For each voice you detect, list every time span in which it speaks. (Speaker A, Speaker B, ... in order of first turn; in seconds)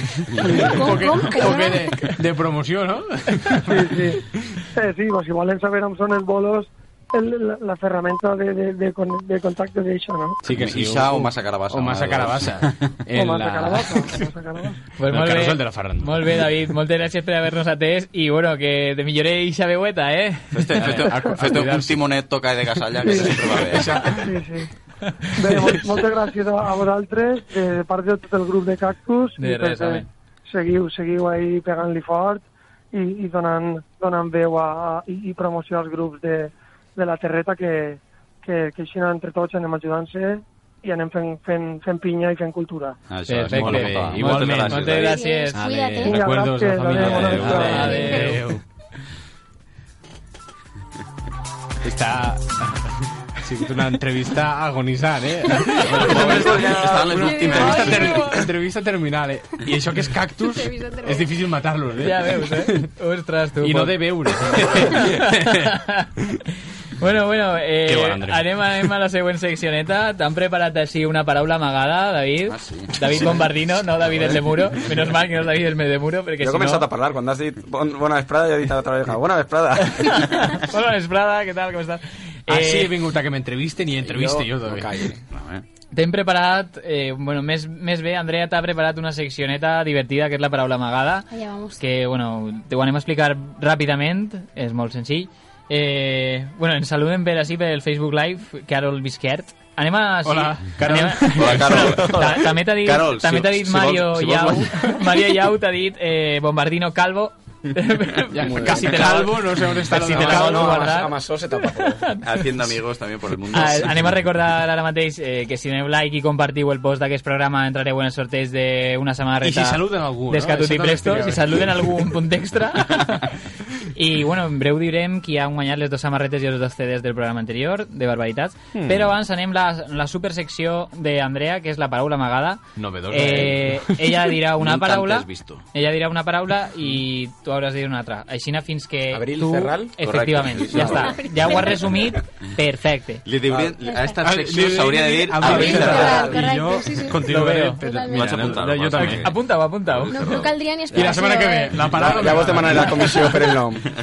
Speaker A: 0.4-4.6, 10.4-14.1, 15.0-16.5, 20.8-22.0, 23.1-24.3, 43.4-48.6, 51.8-52.6, 53.4-62.9, 63.6-65.7, 67.8-68.6, 82.5-84.9, 100.2-102.0, 108.3-110.9, 119.4-122.0, 128.7-129.1, 132.8-134.3, 144.2-149.3, 150.9-153.4
Speaker B: 0.4-0.8, 3.7-4.2, 4.7-10.4, 13.1-14.8, 23.0-23.4, 24.1-24.7, 25.4-43.0, 46.1-47.9
Speaker C: 0.7-1.9, 45.0-46.3, 47.7-48.2, 57.1-58.4, 60.5-61.3, 91.3-91.8, 141.0-141.9, 143.8-144.2, 145.4-147.2, 147.8-148.5, 150.1-151.8
Speaker D: 10.5-12.9, 20.5-24.1, 43.1-45.2, 47.1-47.9, 55.9-58.2, 72.5-73.3, 85.3-85.6, 101.3-104.7, 112.2-114.1, 134.6-135.6, 140.0-141.2, 143.2-146.3, 148.1-149.3, 149.8-150.5
Speaker E: 15.0-20.6, 29.4-30.1, 43.3-45.6, 47.4-48.5, 62.0-64.0, 64.7-66.1, 67.0-76.9, 80.0-83.0, 85.9-91.3, 91.8-112.4, 113.5-123.3, 123.9-143.2, 147.2-147.8, 148.9-150.2
Speaker F: 76.4-80.2, 84.0-85.2, 108.4-109.0, 110.1-112.1, 139.1-139.9, 140.7-141.1, 143.5-143.8, 145.8-146.3, 151.9-153.9